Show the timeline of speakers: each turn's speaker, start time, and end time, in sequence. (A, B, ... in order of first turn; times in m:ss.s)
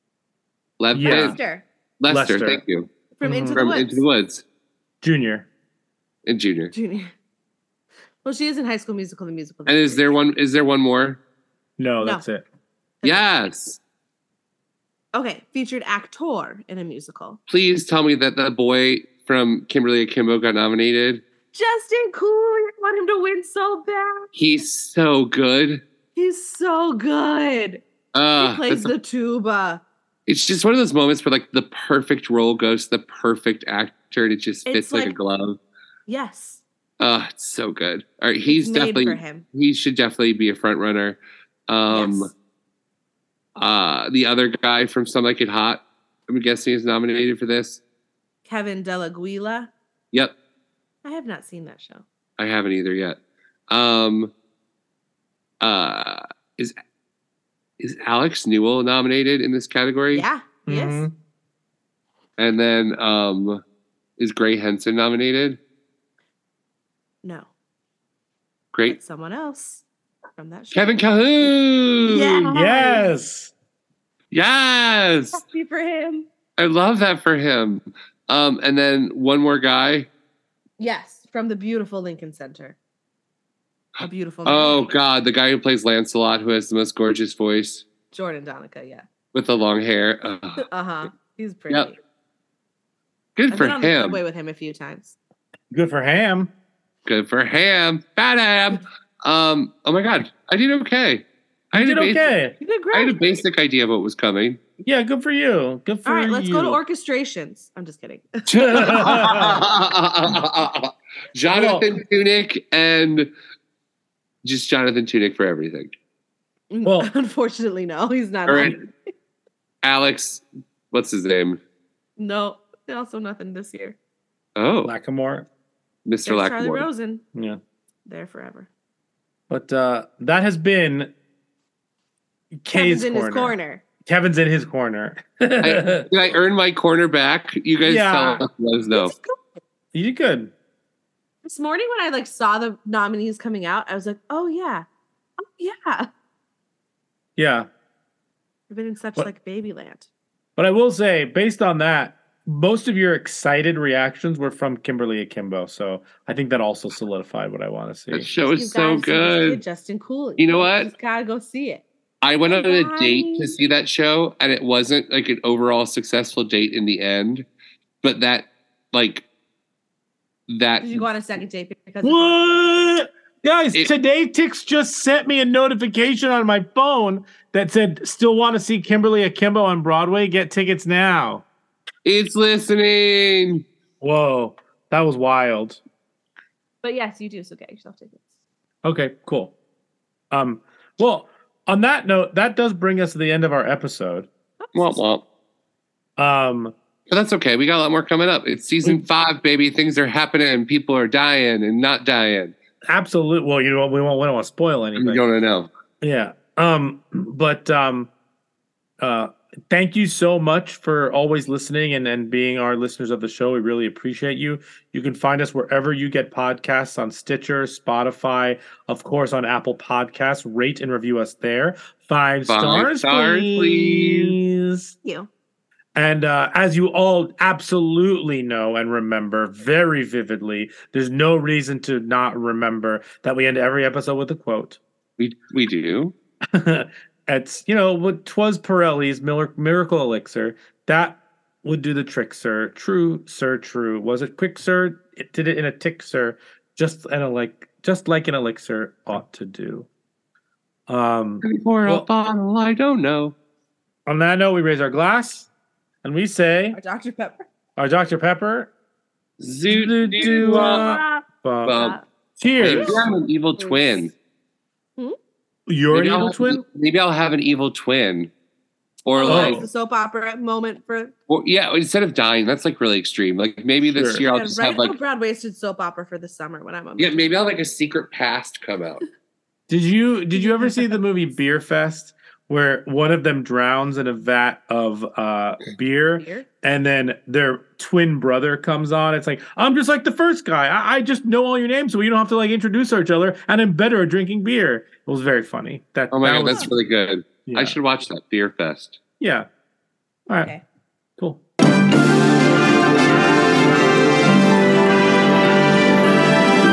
0:00.8-0:01.4 A
0:00.9-0:01.4 B
0:01.0-0:01.6 C
0:02.0-0:02.9 A
0:02.1-0:02.6 B
0:03.2-0:04.0 C
0:03.2-0:03.6 B
0:03.5-0:04.4 A
0:05.0-0:05.5 B
0:06.3-0:06.7 A
0:06.7-0:07.1 C
0:08.2-0:10.2 C
0:09.7-0:11.2 A
0:11.8-0:12.4 B
0:13.0-0:13.8 A
0:15.1-0:17.4 C
0:17.5-0:21.2 A
0:21.5-0:24.3 C
0:24.3-0:25.8 A
0:26.2-0:27.8 C
0:28.1-0:28.9 A
0:28.4-0:29.8 C
0:30.3-0:35.6 A
0:34.7-0:35.2 C
0:36.1-0:36.6 C
0:37.0-0:42.3 A
0:38.5-0:39.4 C
0:41.9-0:42.3 C
0:43.6-0:47.8 A
0:48.5-0:49.7 C
0:51.0-0:52.0 C
0:52.4-0:53.2 A
0:53.7-0:54.3 A
0:55.6-0:56.8 A
0:57.8-1:00.3 A
1:00.1-1:01.1 C
1:00.7-1:01.1 B
1:02.4-1:03.6 A
1:04.2-1:05.6 A
1:07.2-1:07.5 C
1:08.9-1:09.8 C
1:10.4-1:11.0 C
1:10.7-1:12.5 A
1:12.1-1:13.1 C
1:12.5-1:13.5 B
1:14.3-1:15.4 A
1:15.3-1:16.3 C
1:16.6-1:20.1 A
1:20.8-1:22.8 C
1:24.0-1:27.8 A
1:24.0-1:24.9 C
1:28.1-1:29.1 C
1:29.3-1:30.7 A
1:30.6-1:32.0 C
1:33.4-1:34.2 A
1:33.5-1:35.2 C
1:35.7-1:36.5 B
1:37.1-1:42.3 A
1:41.7-1:42.6 B
1:42.6-1:43.2 C
1:42.9-1:44.6 A
1:44.8-1:46.8 B
1:46.0-1:49.4 C
1:48.5-1:53.3 A
1:48.6-1:49.6 B
1:51.5-1:51.9 B
1:54.4-1:55.9 A
1:56.7-1:58.9 C
1:56.8-1:57.1 B
1:58.5-1:58.8 A
1:59.8-2:01.6 A
2:02.2-2:04.0 C
2:04.6-2:04.9 A
2:04.8-2:05.5 B
2:06.1-2:06.9 A
2:06.2-2:07.2 C
2:07.4-2:07.6 B
2:08.1-2:08.7 C
2:09.5-2:11.1 B
2:12.6-2:16.1 B
2:12.7-2:13.8 C
2:15.6-2:19.2 A
2:17.8-2:18.4 B
2:18.9-2:19.5 C
2:19.9-2:20.5 B
2:21.4-2:24.9 C
2:25.4-2:26.1 C
2:27.4-2:27.7 B
2:28.7-2:30.1 C
2:30.6-2:38.3 B
2:38.1-2:39.6 A
2:38.4-2:41.8 C
2:40.4-2:40.9 A
2:42.2-2:47.5 A
2:42.5-2:43.5 C
2:48.0-2:49.2 A
2:50.5-2:51.1 A
2:50.8-2:52.9 C
2:52.0-3:01.4 B
3:02.0-3:03.6 A
3:04.0-3:05.8 B
3:06.8-3:08.3 C
3:08.8-3:09.5 B
3:10.3-3:14.3 B
3:14.6-3:15.1 C
3:14.8-3:15.2 A
3:16.2-3:16.7 B
3:17.1-3:22.6 A
3:22.9-3:25.2 B
3:25.0-3:25.7 A
3:26.0-3:28.1 B
3:29.0-3:45.0 B
3:42.5-3:44.4 A
3:45.0-3:45.3 C
3:46.0-3:54.8 B
3:55.2-3:56.2 A
3:56.5-4:09.9 B
4:10.9-4:12.1 B
4:11.4-4:13.4 A
4:14.1-4:15.5 B
4:16.0-4:16.8 B
4:16.7-4:17.5 C
4:17.8-4:18.7 B
4:19.4-4:20.9 A
4:19.7-4:21.8 B
4:20.2-4:22.0 C
4:21.6-4:22.0 A
4:22.4-4:23.1 B
4:22.6-4:24.1 C
4:22.6-4:24.1 A
4:25.7-4:26.6 B
4:25.9-4:28.3 A
4:29.1-4:29.6 A
4:29.2-4:31.1 C
4:29.3-4:29.7 B
4:31.3-4:35.0 A
4:33.9-4:34.2 B
4:34.3-4:37.3 C
4:37.0-4:39.0 A
4:39.7-4:56.7 B
4:40.3-4:41.0 C
4:46.2-4:46.5 C
4:56.1-4:59.0 A
4:57.5-4:57.8 B
4:59.2-4:59.5 B
5:00.3-5:00.5 B